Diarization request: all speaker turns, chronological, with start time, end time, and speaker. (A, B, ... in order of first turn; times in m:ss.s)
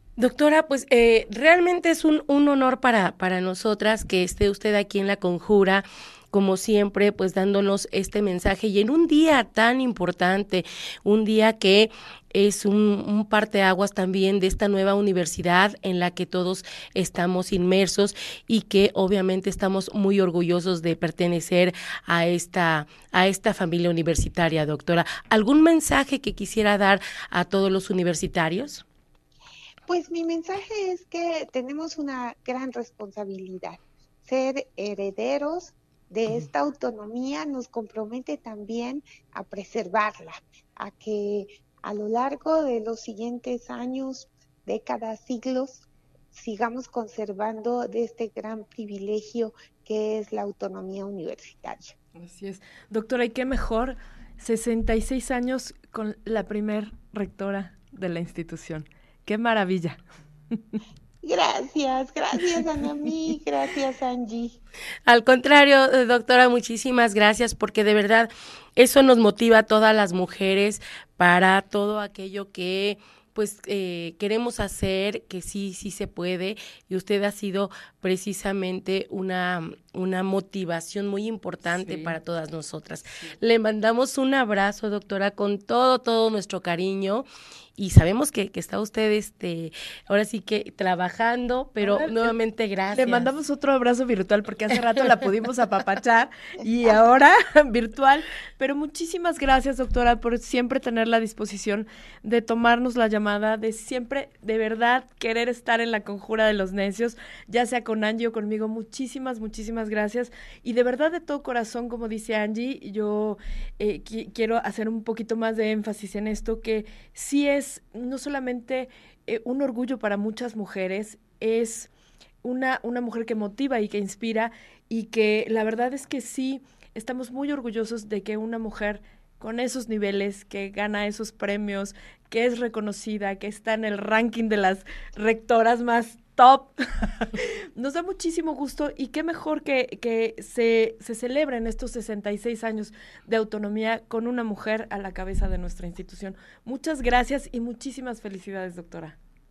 0:00.2-0:28.8 A
0:29.9-0:52.0 B
0:52.1-1:00.8 C
1:01.2-1:04.6 B
1:05.1-1:33.3 A
1:21.6-1:22.2 C
1:31.8-1:32.3 C
1:32.9-2:01.9 C
2:02.4-2:29.2 C